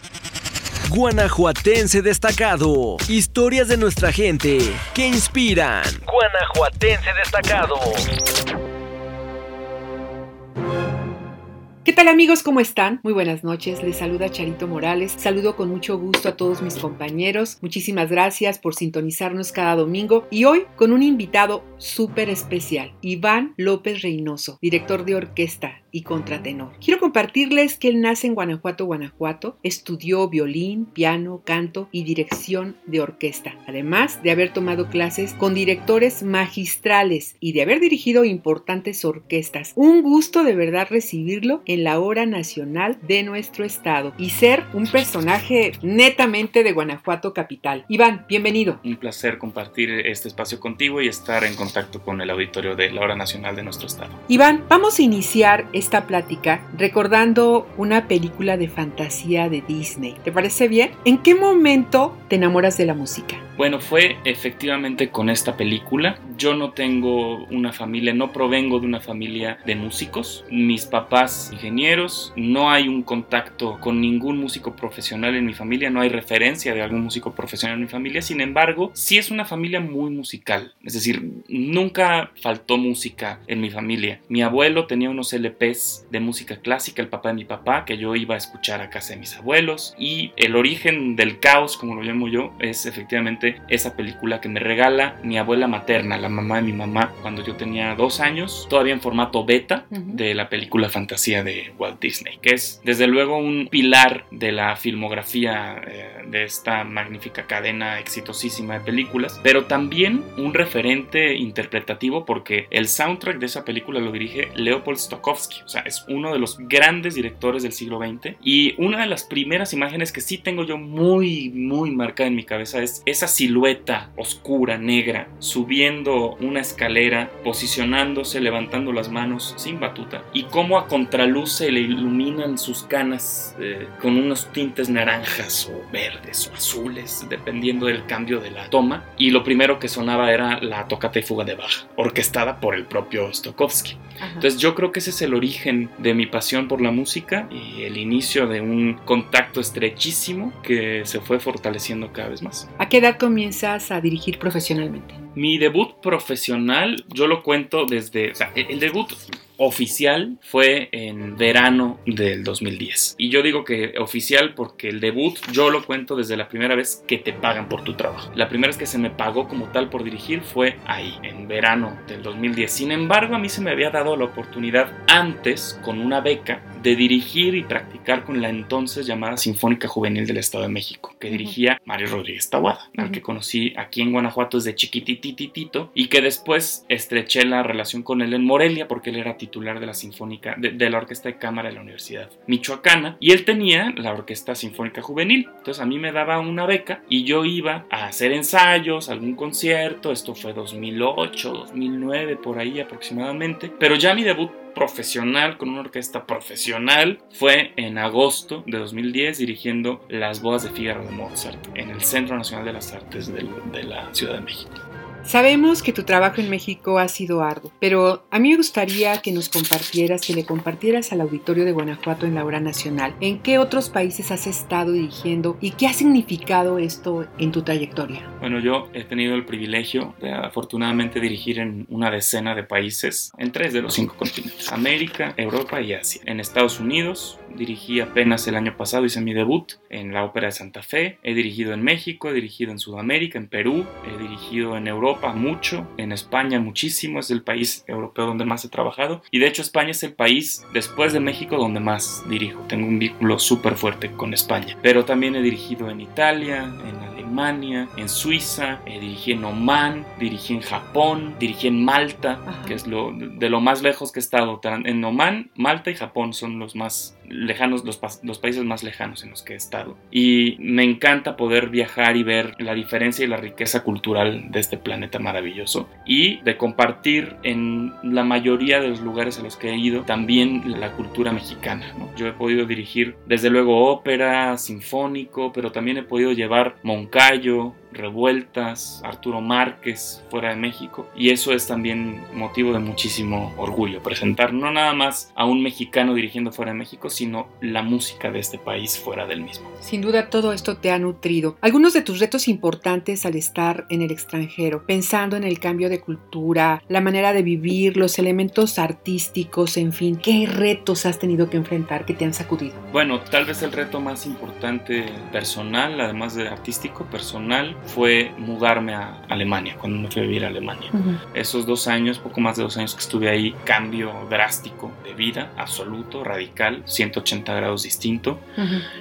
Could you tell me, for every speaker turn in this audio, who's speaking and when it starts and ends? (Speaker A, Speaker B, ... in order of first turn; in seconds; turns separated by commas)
Speaker A: 0.8-8.0, Speaker B: 11.8-48.8, Speaker C: 48.8-54.2, Speaker B: 54.3-63.4, Speaker C: 63.5-152.7, Speaker B: 99.9-100.2, Speaker B: 144.2-144.5, Speaker B: 152.8-155.2, Speaker C: 155.3-214.7, Speaker B: 181.3-181.5, Speaker B: 215.2-228.3, Speaker C: 228.4-299.7, Speaker B: 262.4-262.8, Speaker B: 299.8-312.8, Speaker C: 312.9-328.4, Speaker B: 320.9-321.2, Speaker B: 328.6-328.8